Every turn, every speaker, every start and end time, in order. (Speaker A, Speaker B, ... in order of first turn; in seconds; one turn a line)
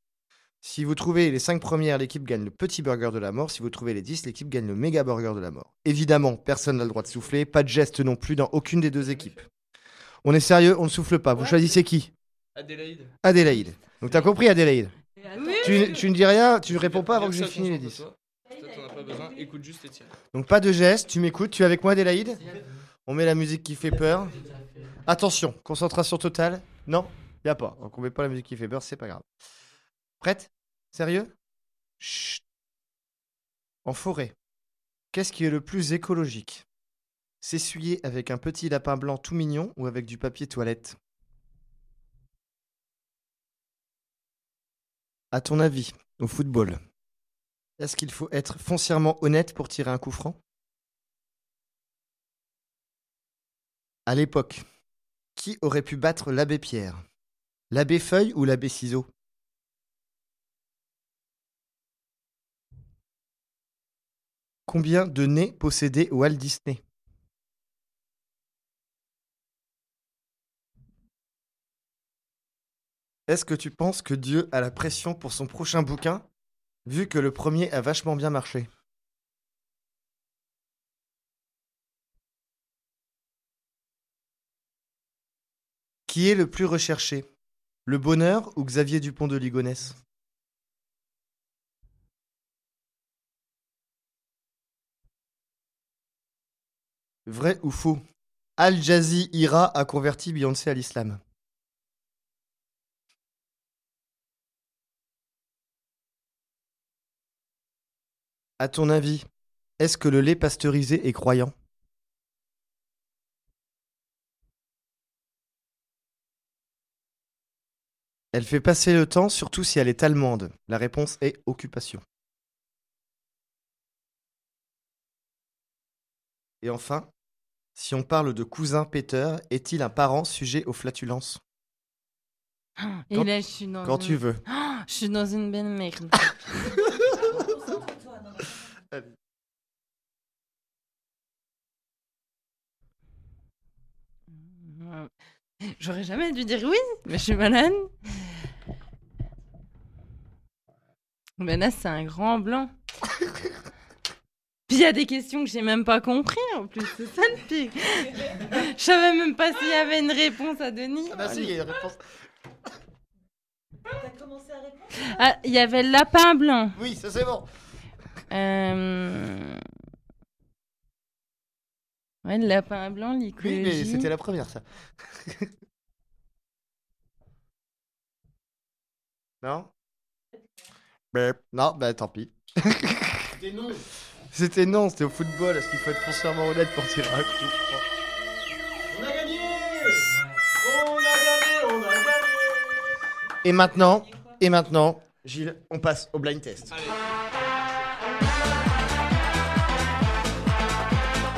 Speaker A: 0.6-9.4
Speaker A: 10.2-12.1
Speaker B: 12.6-13.1
Speaker A: 13.2-14.9
Speaker C: 15.2-16.0
Speaker D: 15.4-16.0
Speaker A: 15.6-18.0
Speaker B: 16.7-20.1
Speaker A: 20.3-22.4
Speaker A: 23.1-24.4
Speaker A: 25.0-29.2
Speaker A: 30.2-31.3
Speaker A: 32.0-32.4
Speaker A: 33.8-34.3
Speaker A: 35.1-36.6
Speaker A: 37.4-41.0
Speaker A: 45.3-46.8
Speaker A: 47.8-50.4
Speaker A: 54.0-54.6
Speaker A: 55.4-57.0
Speaker A: 57.7-59.1
Speaker A: 64.7-66.8
Speaker A: 73.3-76.2
Speaker A: 76.8-78.7
Speaker A: 86.1-87.2
Speaker A: 87.8-90.0
Speaker A: 97.2-98.0
Speaker A: 98.6-101.2
Speaker A: 108.6-109.2
Speaker A: 109.8-111.5
Speaker A: 118.3-122.0
Speaker A: 126.6-127.1
Speaker A: 127.8-131.4
Speaker D: 132.8-136.2
Speaker A: 133.1-134.4
Speaker C: 137.3-138.5
Speaker D: 144.5-145.1
Speaker D: 145.6-147.9
Speaker D: 151.4-152.7
Speaker D: 154.7-161.5
Speaker A: 161.1-162.0
Speaker C: 163.9-165.1
Speaker D: 164.9-166.8
Speaker A: 166.7-167.5
Speaker D: 168.3-169.6
Speaker D: 172.2-174.1
Speaker A: 173.4-175.5
Speaker A: 179.4-179.7
Speaker A: 181.1-183.3
Speaker E: 183.3-183.8
Speaker A: 184.3-187.8
Speaker E: 188.9-192.9
Speaker A: 193.4-196.7
Speaker B: 196.7-196.9